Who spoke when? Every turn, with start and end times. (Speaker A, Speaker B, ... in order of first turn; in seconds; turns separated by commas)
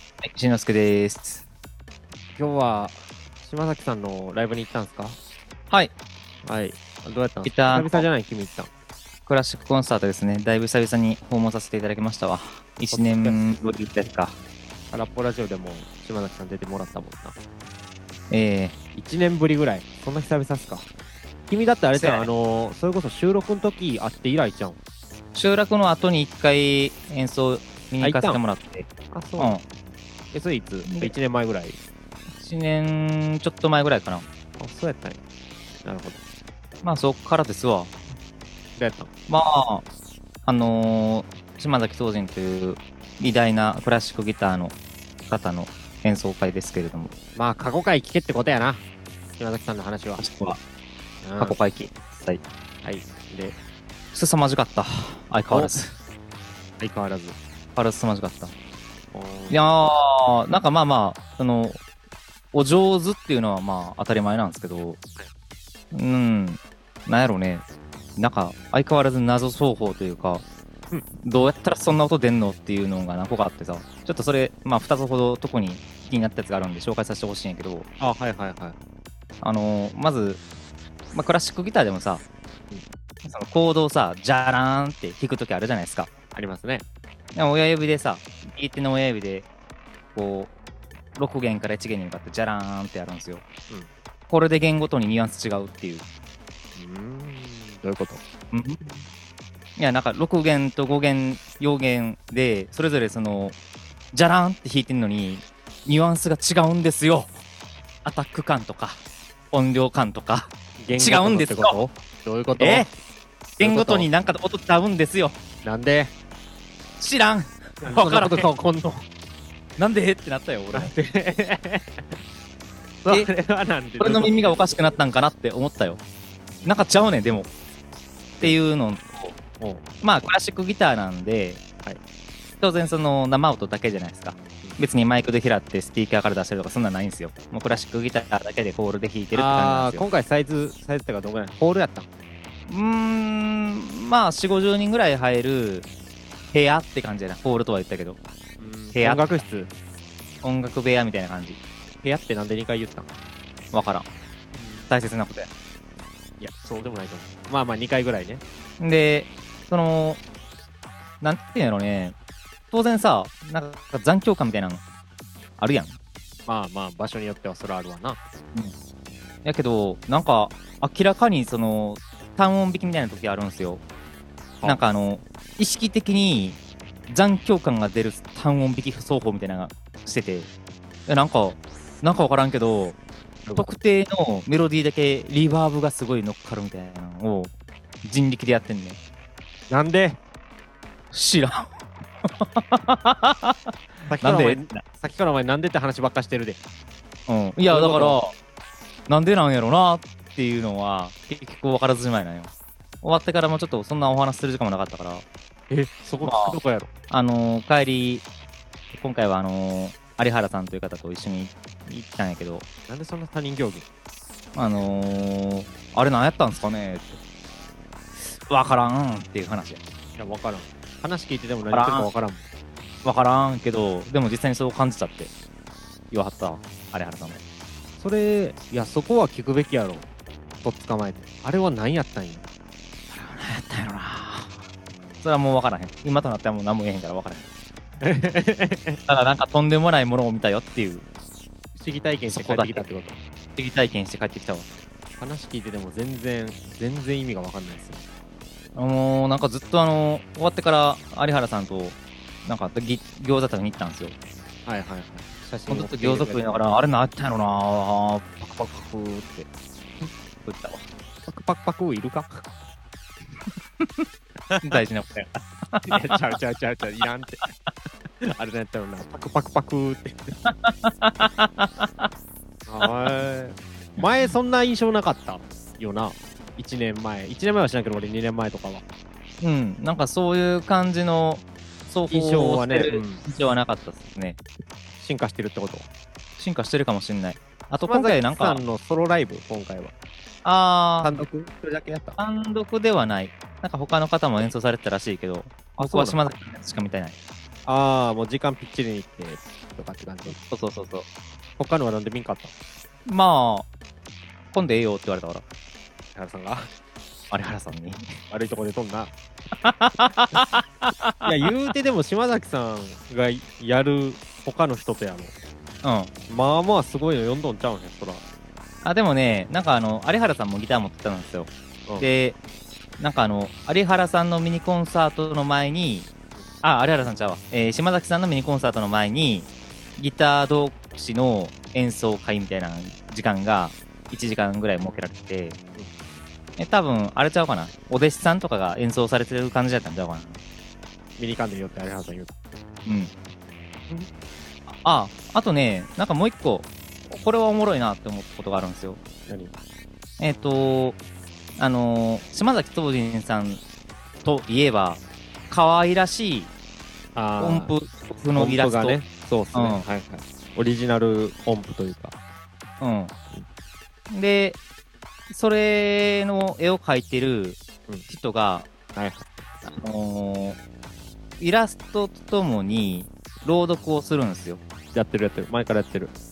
Speaker A: 0.2-1.4, Speaker B: 2.4-5.2, Speaker B: 6.4-8.7, Speaker A: 7.4-8.1, Speaker A: 9.3-14.4, Speaker B: 12.9-13.4, Speaker B: 14.9-17.4, Speaker A: 18.3-18.8, Speaker B: 18.9-20.9, Speaker B: 21.5-24.8, Speaker A: 21.9-22.3, Speaker A: 25.4-29.6, Speaker B: 28.0-28.4, Speaker B: 29.1-29.6, Speaker B: 30.3-31.8, Speaker A: 30.8-31.1, Speaker A: 32.4-34.3, Speaker B: 34.6-35.2, Speaker B: 35.9-36.2, Speaker A: 36.8-38.0, Speaker B: 38.8-39.1, Speaker A: 39.3-39.9, Speaker A: 40.5-44.8, Speaker A: 45.3-47.1, Speaker B: 47.4-48.8, Speaker B: 49.4-50.2, Speaker A: 50.2-50.6, Speaker B: 51.2-51.6, Speaker A: 51.4-52.4, Speaker B: 52.8-53.6, Speaker A: 54.1-56.0, Speaker B: 56.8-57.4, Speaker A: 57.8-58.5, Speaker B: 59.1-59.6, Speaker A: 59.5-61.8, Speaker A: 62.5-65.0, Speaker A: 65.9-67.7, Speaker A: 68.2-70.4, Speaker A: 71.2-77.9, Speaker B: 78.0-78.8, Speaker A: 79.4-80.4, Speaker A: 81.1-82.2, Speaker A: 83.2-86.1, Speaker B: 86.3-86.8, Speaker A: 87.3-89.5, Speaker A: 90.2-90.5, Speaker A: 91.2-93.5, Speaker A: 94.3-96.0, Speaker B: 96.8-98.2, Speaker A: 98.5-98.8, Speaker A: 99.8-103.6, Speaker A: 104.1-107.4, Speaker A: 108.0-111.8, Speaker B: 110.8-112.9, Speaker A: 112.6-112.9, Speaker B: 113.5-114.1, Speaker A: 113.6-115.4, Speaker B: 115.6-116.1, Speaker A: 117.0-118.5, Speaker B: 117.8-119.1, Speaker A: 119.8-120.9, Speaker B: 120.7-122.2, Speaker B: 123.0-124.7, Speaker A: 124.0-126.0, Speaker B: 126.6-127.1, Speaker A: 126.6-127.5, Speaker A: 128.4-129.4, Speaker B: 129.6-130.3, Speaker A: 130.0-131.6, Speaker A: 132.6-140.1, Speaker B: 139.3-142.1, Speaker A: 142.7-145.9, Speaker A: 146.5-148.2, Speaker B: 148.6-149.7, Speaker A: 148.9-149.4, Speaker A: 150.4-151.6, Speaker B: 152.0-153.1, Speaker A: 153.7-154.1, Speaker B: 154.5-154.9, Speaker A: 154.9-155.5, Speaker B: 156.4-158.4, Speaker A: 158.8-160.2, Speaker A: 161.2-162.2, Speaker A: 162.7-164.8, Speaker A: 165.6-166.0, Speaker B: 166.5-168.2, Speaker A: 169.4-173.8, Speaker A: 174.7-180.5, Speaker A: 181.1-183.0, Speaker A: 183.6-187.5, Speaker A: 188.0-189.0, Speaker B: 189.7-190.2, Speaker A: 191.1-194.8, Speaker B: 194.1-196.6, Speaker A: 197.3-198.3, Speaker B: 197.7-198.2, Speaker A: 199.1-205.2, Speaker B: 205.7-206.9, Speaker A: 206.2-206.6, Speaker A: 207.1-208.3, Speaker A: 208.9-212.7, Speaker B: 212.9-213.9, Speaker A: 214.6-217.2, Speaker A: 218.2-219.8, Speaker B: 220.2-222.4, Speaker A: 221.7-222.1, Speaker A: 223.0-225.3, Speaker A: 226.1-227.4, Speaker B: 228.0-230.1, Speaker B: 230.6-232.4, Speaker A: 233.1-234.6, Speaker A: 235.2-237.5, Speaker B: 238.0-239.0, Speaker A: 239.1-241.1, Speaker B: 241.8-243.2, Speaker A: 242.3-242.8, Speaker A: 243.6-244.7, Speaker B: 245.2-248.1, Speaker A: 248.8-254.2, Speaker B: 254.7-256.7, Speaker A: 255.7-259.5, Speaker A: 260.4-260.9, Speaker B: 261.3-262.4, Speaker A: 263.8-264.1, Speaker B: 264.5-264.8, Speaker A: 264.6-266.2, Speaker B: 265.9-267.4, Speaker B: 268.2-270.4, Speaker A: 270.4-272.1, Speaker B: 272.7-278.8, Speaker A: 272.8-273.1, Speaker A: 279.4-284.4, Speaker B: 282.1-283.2, Speaker B: 285.0-285.9, Speaker A: 286.4-288.6, Speaker B: 287.9-289.9, Speaker A: 290.4-291.1, Speaker B: 291.0-292.2, Speaker A: 292.2-297.2, Speaker B: 295.8-296.2, Speaker B: 297.7-300.4, Speaker A: 300.3-301.1, Speaker B: 301.6-302.5, Speaker A: 303.1-303.7, Speaker A: 304.5-305.4, Speaker B: 306.1-306.7, Speaker A: 307.3-308.1, Speaker B: 308.3-309.1, Speaker A: 309.6-311.5, Speaker B: 311.2-315.3, Speaker A: 315.8-316.1, Speaker B: 316.3-318.2, Speaker A: 318.8-322.4, Speaker A: 323.0-326.1, Speaker A: 326.6-335.6, Speaker A: 336.6-340.4, Speaker B: 341.2-342.4, Speaker A: 342.9-343.1, Speaker A: 344.7-349.0, Speaker B: 349.3-349.5, Speaker A: 350.2-351.0, Speaker A: 351.6-353.6, Speaker A: 354.2-356.5, Speaker B: 357.1-357.7, Speaker A: 357.4-359.0, Speaker B: 358.4-362.2, Speaker A: 359.5-359.9, Speaker A: 362.8-363.1, Speaker A: 364.1-364.6, Speaker A: 365.3-368.7, Speaker B: 368.9-369.3, Speaker A: 369.6-370.6, Speaker A: 371.4-374.6, Speaker B: 374.9-376.1